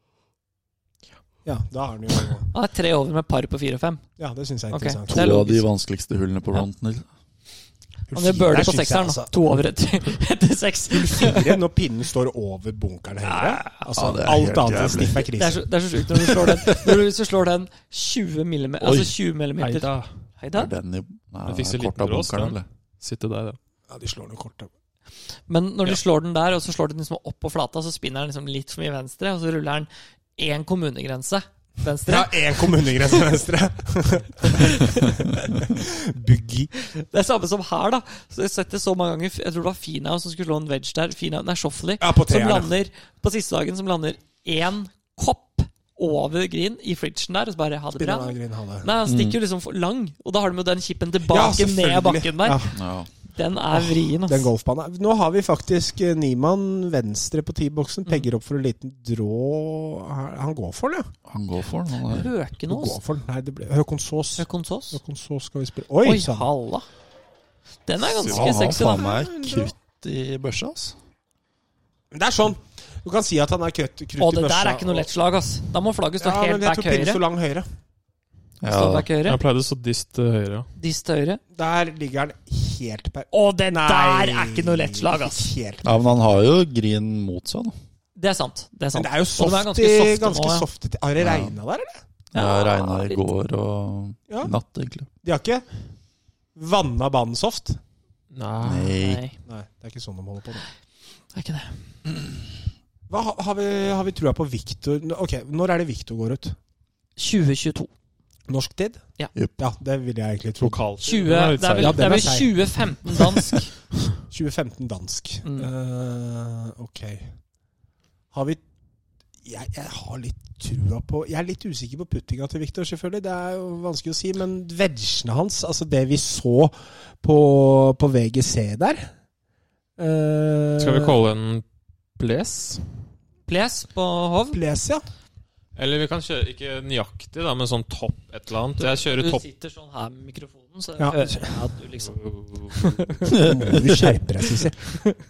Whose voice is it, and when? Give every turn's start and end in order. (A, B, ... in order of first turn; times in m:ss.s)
0:01.4-0:02.5 A
0:02.5-0:04.0 B
0:04.2-0:05.5 A
0:04.7-0:05.6 B
0:05.1-0:07.0 C
0:08.1-0:09.3 A
0:08.1-0:11.5 B
0:10.9-0:15.6 A
0:13.2-0:13.9 B
0:13.9-0:15.3 C
0:15.3-0:20.7 B
0:16.1-0:17.0 C
0:18.8-0:19.1 C
0:19.6-0:20.1 D
0:20.5-0:22.6 C
0:21.4-0:23.6 D
0:23.9-0:24.7 A
0:25.5-0:33.0 B
0:32.1-0:36.7 A
0:34.4-0:35.3 B
0:36.8-0:52.7 B
0:42.0-0:42.7 A
0:48.0-0:48.9 A
0:49.0-0:49.4 C
0:51.3-0:52.8 A
0:52.7-0:53.1 C
0:53.3-0:54.5 B
0:53.7-1:01.1 A
1:01.2-1:02.3 C
1:02.0-1:03.0 B
1:02.7-1:06.5 A
1:04.4-1:05.0 B
1:06.0-1:06.8 B
1:07.8-1:09.1 B
1:08.2-1:11.0 C
1:08.2-1:09.7 A
1:12.1-1:15.1 A
1:14.2-1:17.2 B
1:16.2-1:17.7 A
1:18.6-1:19.1 C
1:18.6-1:19.4 B
1:19.2-1:20.7 D
1:20.8-1:21.4 B
1:21.5-1:26.2 A
1:23.3-1:25.5 B
1:25.8-1:27.7 C
1:28.2-1:30.6 B
1:28.9-1:32.0 A
1:31.2-1:31.6 C
1:32.3-1:35.1 C
1:32.3-1:33.2 B
1:35.2-1:35.6 A
1:36.5-1:37.8 A
1:38.3-1:39.0 D
1:38.6-1:39.2 C
1:39.0-1:39.4 B
1:39.4-1:40.6 A
1:41.3-1:41.8 B
1:43.1-1:46.6 A
1:47.2-1:47.9 B
1:48.5-1:49.0 A
1:49.6-1:50.8 A
1:50.6-1:52.3 D
1:51.0-1:53.7 B
1:51.8-1:52.7 A
1:54.3-1:57.3 A
1:55.4-1:55.7 B
1:58.3-1:58.6 A
1:59.4-2:09.1 A
2:10.0-2:11.1 A
2:10.8-2:11.6 D
2:12.2-2:12.8 D
2:13.5-2:14.6 B
2:14.5-2:15.0 A
2:15.8-2:19.4 D
2:18.8-2:22.2 B
2:21.0-2:21.4 A
2:22.0-2:23.2 D
2:22.7-2:23.3 B
2:23.3-2:25.0 A
2:23.4-2:23.8 C